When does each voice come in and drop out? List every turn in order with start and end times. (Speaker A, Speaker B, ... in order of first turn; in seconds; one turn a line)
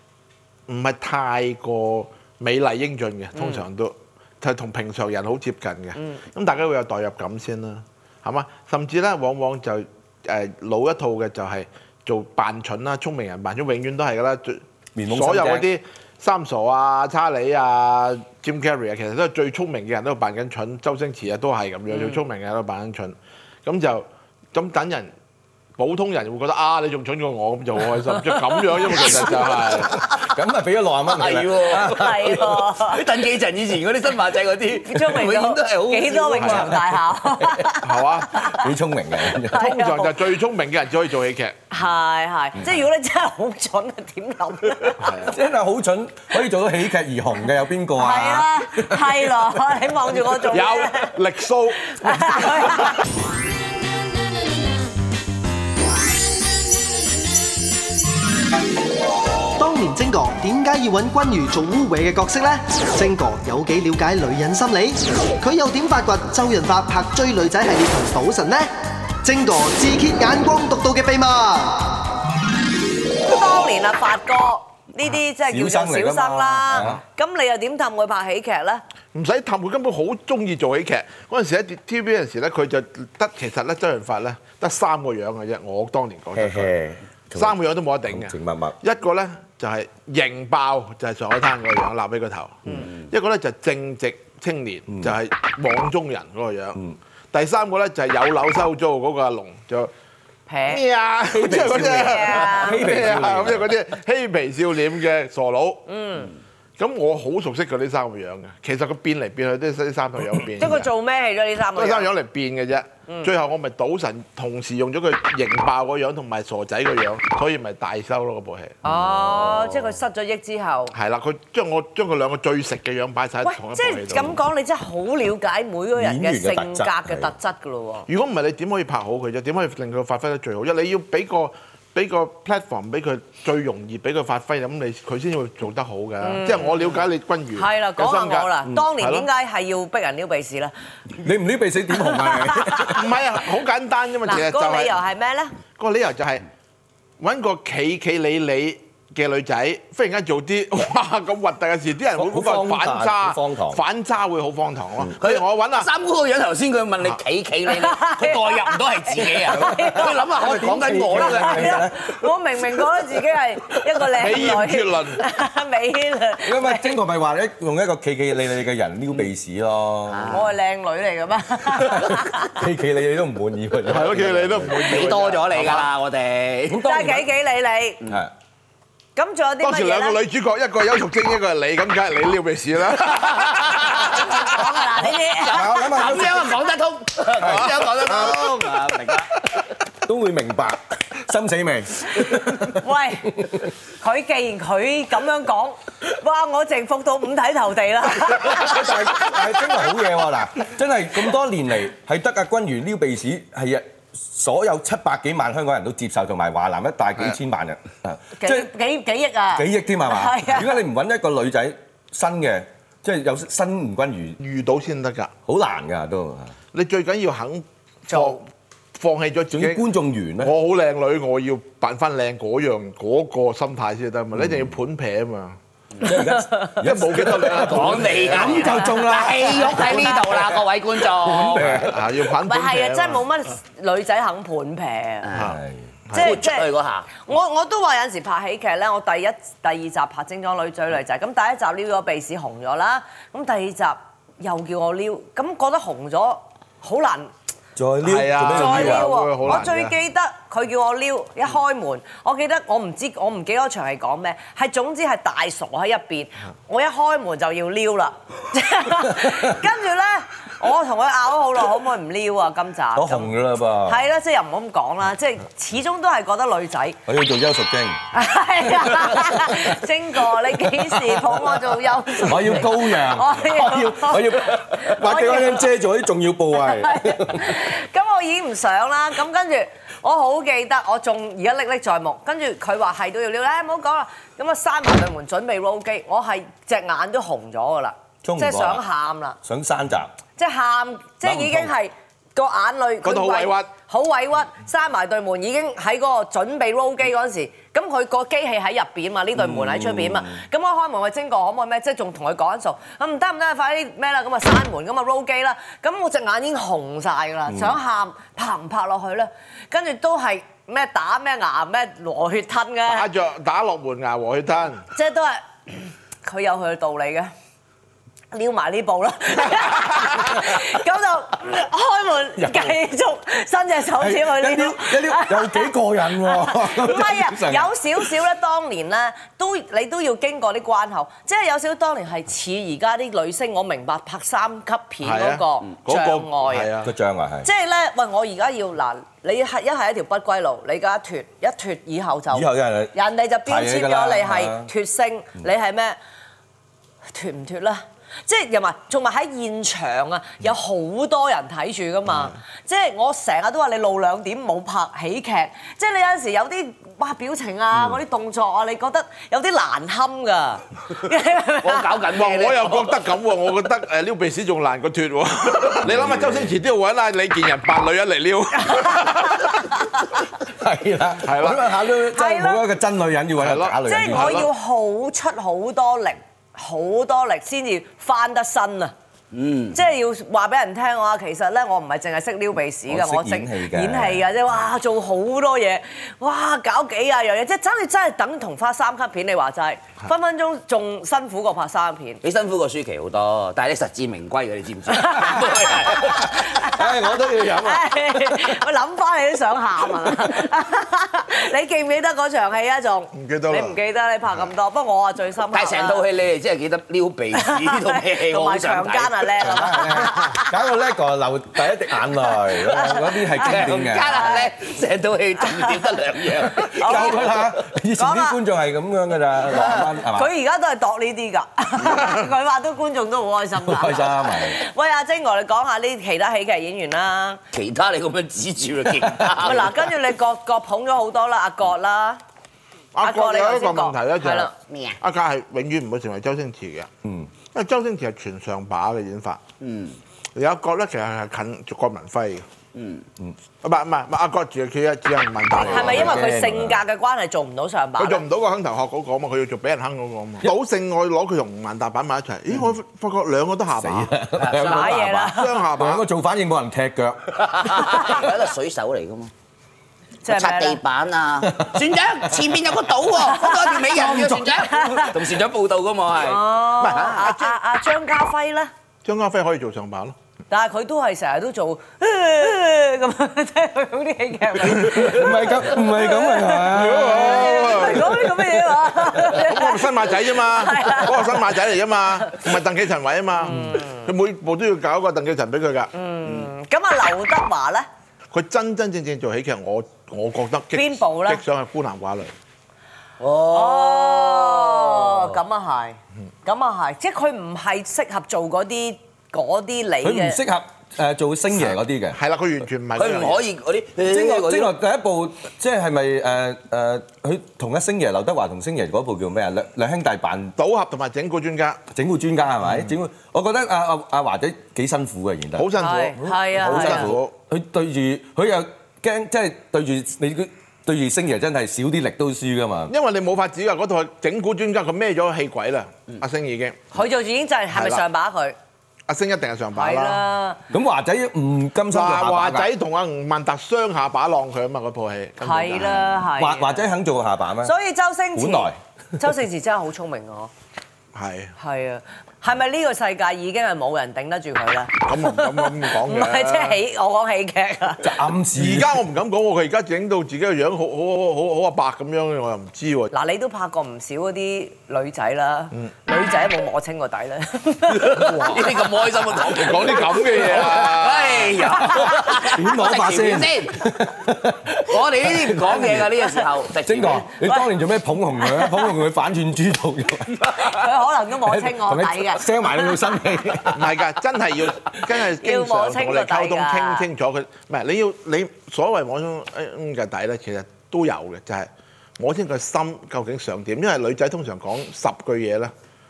Speaker A: 0.7-25.1
Speaker B: 3.4-3.6
Speaker B: 6.0-6.2
Speaker C: 14.9-15.7
Speaker B: 21.9-22.2
Speaker A: 25.8-30.0
Speaker B: 28.3-29.1
Speaker C: 30.0-32.4
Speaker D: 31.1-36.8
Speaker B: 31.8-33.0
Speaker B: 34.8-38.7
Speaker C: 36.4-36.8
Speaker A: 37.8-38.5
Speaker C: 38.5-39.6
Speaker B: 39.4-40.2
Speaker A: 39.5-41.5
Speaker B: 41.7-45.2
Speaker A: 45.0-45.4
Speaker C: 45.2-49.3
Speaker B: 47.9-51.1
Speaker A: 50.5-52.9
Speaker B: 51.8-53.0
Speaker E: 59.6-72.0
Speaker B: 73.2-78.8
Speaker C: 75.4-77.0
Speaker A: 79.1-86.8
Speaker C: 86.3-87.5
Speaker A: 87.3-96.8
Speaker C: 88.1-88.8
Speaker A: 97.3-99.9
Speaker B: 100.5-100.8
Speaker A: 100.7-105.9
Speaker C: 101.3-103.7
Speaker B: 101.5-103.0
Speaker B: 105.9-106.3
Speaker A: 106.8-110.9
Speaker B: 110.6-112.1
Speaker A: 111.7-118.8
Speaker B: 118.8-120.9
Speaker C: 118.8-119.6
Speaker A: 120.9-124.4
Speaker B: 123.4-128.1
Speaker C: 126.0-127.3
Speaker A: 128.1-139.3
Speaker B: 136.2-140.7
Speaker C: 141.2-143.1
Speaker B: 142.0-143.1
Speaker A: 142.9-145.0
Speaker B: 144.2-145.5
Speaker A: 145.8-146.4
Speaker A: 147.2-155.9
Speaker C: 152.2-153.8
Speaker D: 155.2-161.8
Speaker B: 157.7-160.3
Speaker C: 159.7-162.1
Speaker B: 161.2-167.0
Speaker A: 164.1-165.2
Speaker C: 166.4-170.5
Speaker D: 170.1-170.5
Speaker B: 170.3-172.6
Speaker C: 171.7-174.8
Speaker A: 173.8-175.9
Speaker D: 174.7-177.2
Speaker C: 176.7-177.2
Speaker B: 176.8-178.0
Speaker C: 178.0-178.3
Speaker B: 179.2-180.2
Speaker A: 179.6-184.3
Speaker D: 183.2-189.4
Speaker B: 184.0-186.0
Speaker C: 185.5-186.6
Speaker C: 187.4-188.3
Speaker A: 187.4-188.5
Speaker C: 190.0-192.8
Speaker B: 192.2-199.8
Speaker C: 193.4-193.7
Speaker C: 198.2-208.7
Speaker B: 208.3-210.8
Speaker C: 209.5-214.4
Speaker A: 214.4-215.3
Speaker C: 215.5-216.5
Speaker A: 216.7-225.6
Speaker B: 218.1-218.4
Speaker C: 219.5-220.5
Speaker C: 224.4-224.7
Speaker C: 226.0-232.1
Speaker B: 226.0-226.8
Speaker A: 226.8-228.7
Speaker D: 227.5-231.9
Speaker A: 231.6-233.2
Speaker B: 232.4-235.3
Speaker D: 235.2-235.5
Speaker A: 235.3-236.4
Speaker C: 235.4-235.8
Speaker D: 236.1-237.1
Speaker B: 236.1-247.3
Speaker C: 247.8-249.1
Speaker A: 248.0-249.9
Speaker B: 248.4-263.3
Speaker C: 259.1-259.6
Speaker C: 262.9-264.0
Speaker B: 263.9-267.0
Speaker C: 267.1-268.0
Speaker B: 268.1-275.7
Speaker C: 269.0-269.5
Speaker C: 270.9-271.5
Speaker C: 272.1-277.6
Speaker B: 276.6-289.4
Speaker C: 288.2-288.8
Speaker C: 289.4-290.1
Speaker B: 290.4-313.1
Speaker C: 291.2-291.7
Speaker A: 293.0-293.7
Speaker C: 299.4-300.4
Speaker C: 307.5-307.7
Speaker A: 312.9-314.9
Speaker B: 314.9-317.3
Speaker B: 318.3-336.7
Speaker C: 322.4-322.8
Speaker C: 324.0-327.7
Speaker A: 335.0-336.9
Speaker C: 336.8-337.5
Speaker B: 337.4-346.0
Speaker C: 342.3-342.9
Speaker C: 343.5-344.7
Speaker B: 347.1-362.1
Speaker D: 361.6-363.0
Speaker A: 362.1-369.7
Speaker C: 365.8-366.5
Speaker B: 368.6-369.7
Speaker C: 370.4-374.5
Speaker A: 371.2-371.7
Speaker B: 372.1-372.7
Speaker A: 373.3-374.5
Speaker B: 373.9-378.9
Speaker D: 379.3-379.8
Speaker B: 379.7-392.2
Speaker C: 382.9-384.2
Speaker D: 392.2-396.4
Speaker B: 394.9-406.0
Speaker C: 396.0-398.5
Speaker A: 403.1-403.8
Speaker D: 405.5-409.8
Speaker B: 407.4-410.5
Speaker C: 409.4-414.3
Speaker B: 412.6-414.5
Speaker D: 413.4-417.6
Speaker C: 416.6-420.3
Speaker B: 416.7-417.2
Speaker B: 418.0-418.4
Speaker D: 419.4-419.9
Speaker B: 420.0-427.4
Speaker C: 423.6-424.6
Speaker D: 427.5-429.9
Speaker B: 429.4-432.2
Speaker A: 432.9-436.9
Speaker B: 433.0-434.5
Speaker D: 434.7-435.0
Speaker A: 437.5-439.4
Speaker D: 439.6-440.0
Speaker A: 440.3-442.4
Speaker D: 442.7-443.1
Speaker A: 443.6-446.3
Speaker B: 445.6-448.2
Speaker C: 445.6-446.8
Speaker A: 448.0-454.1
Speaker C: 453.8-458.2
Speaker D: 454.4-455.0
Speaker B: 454.6-455.6
Speaker A: 455.1-456.0
Speaker D: 457.5-459.3
Speaker B: 460.2-460.8
Speaker D: 460.3-467.3
Speaker C: 461.4-461.8
Speaker B: 463.3-465.2
Speaker C: 463.9-464.5
Speaker B: 466.2-468.7
Speaker A: 466.8-467.5
Speaker A: 469.0-470.1
Speaker B: 470.5-481.6
Speaker A: 474.6-475.1
Speaker C: 474.8-478.3
Speaker A: 476.6-478.3
Speaker A: 479.2-485.9
Speaker B: 483.4-484.1
Speaker B: 485.9-487.9
Speaker A: 488.3-492.3
Speaker B: 490.7-491.4
Speaker D: 493.2-495.4
Speaker B: 493.5-500.4
Speaker C: 500.0-502.2
Speaker A: 501.5-503.4
Speaker D: 502.9-504.7
Speaker C: 504.0-510.5
Speaker A: 510.6-511.8
Speaker C: 511.9-522.9
Speaker A: 512.6-512.9
Speaker A: 515.5-517.3
Speaker B: 515.8-517.1
Speaker A: 522.9-526.9
Speaker B: 526.9-528.5
Speaker A: 527.7-528.0
Speaker A: 529.1-530.2
Speaker B: 529.7-530.6
Speaker C: 530.7-532.7
Speaker A: 531.9-536.1
Speaker B: 535.4-536.9
Speaker C: 536.2-537.7
Speaker B: 537.6-540.5
Speaker C: 538.3-538.8
Speaker A: 541.1-541.5
Speaker B: 541.6-548.2
Speaker A: 545.0-546.8
Speaker C: 548.0-549.0
Speaker A: 548.5-553.1
Speaker B: 553.1-558.5
Speaker D: 558.0-563.9
Speaker A: 559.3-561.7
Speaker C: 561.8-566.1
Speaker B: 561.8-562.3
Speaker D: 564.9-567.3
Speaker C: 566.8-570.9
Speaker B: 567.4-567.7
Speaker B: 568.4-568.9
Speaker B: 570.5-573.1
Speaker C: 571.4-574.0
Speaker A: 573.7-585.7
Speaker B: 575.4-577.1